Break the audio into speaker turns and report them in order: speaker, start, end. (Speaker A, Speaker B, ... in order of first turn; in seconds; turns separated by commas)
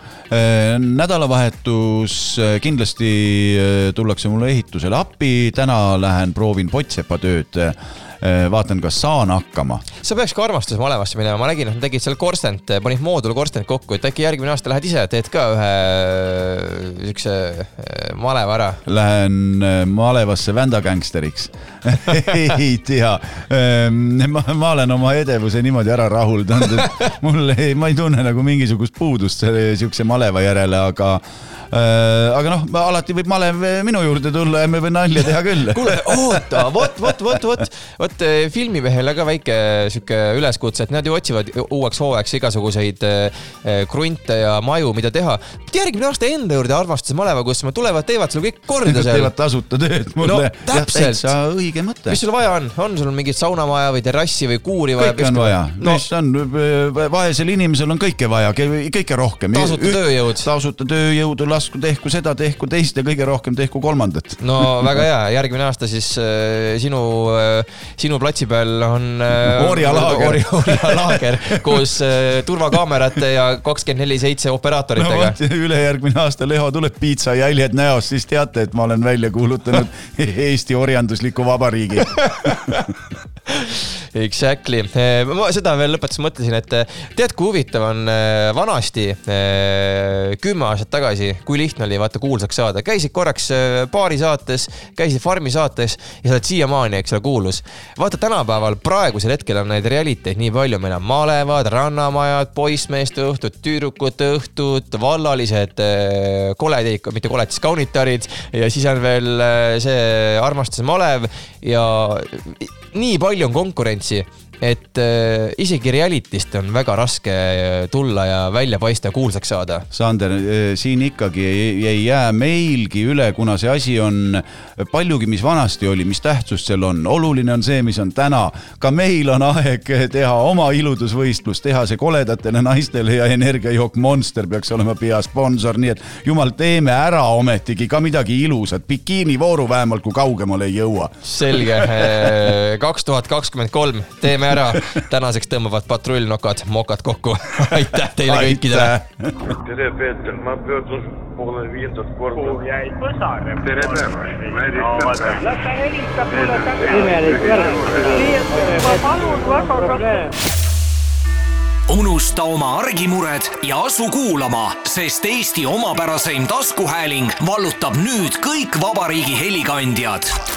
Speaker A: 0.3-9.8, Speaker B: 10.0-18.8, Speaker A: 18.9-37.4, Speaker B: 35.7-49.3, Speaker A: 48.9-52.2, Speaker B: 50.2-51.3, Speaker B: 52.1-56.0, Speaker A: 55.0-65.0, Speaker B: 59.5-60.5, Speaker B: 64.4-75.4, Speaker A: 69.4-71.9, Speaker A: 75.0-82.8, Speaker B: 82.2-82.9, Speaker B: 83.5-119.9, Speaker A: 119.9-142.5, Speaker B: 141.2-148.9, Speaker A: 148.2-149.6, Speaker C: 149.6-152.7, Speaker D: 152.5-154.2, Speaker C: 154.8-155.2, Speaker D: 155.3-160.3, Speaker E: 161.9-170.4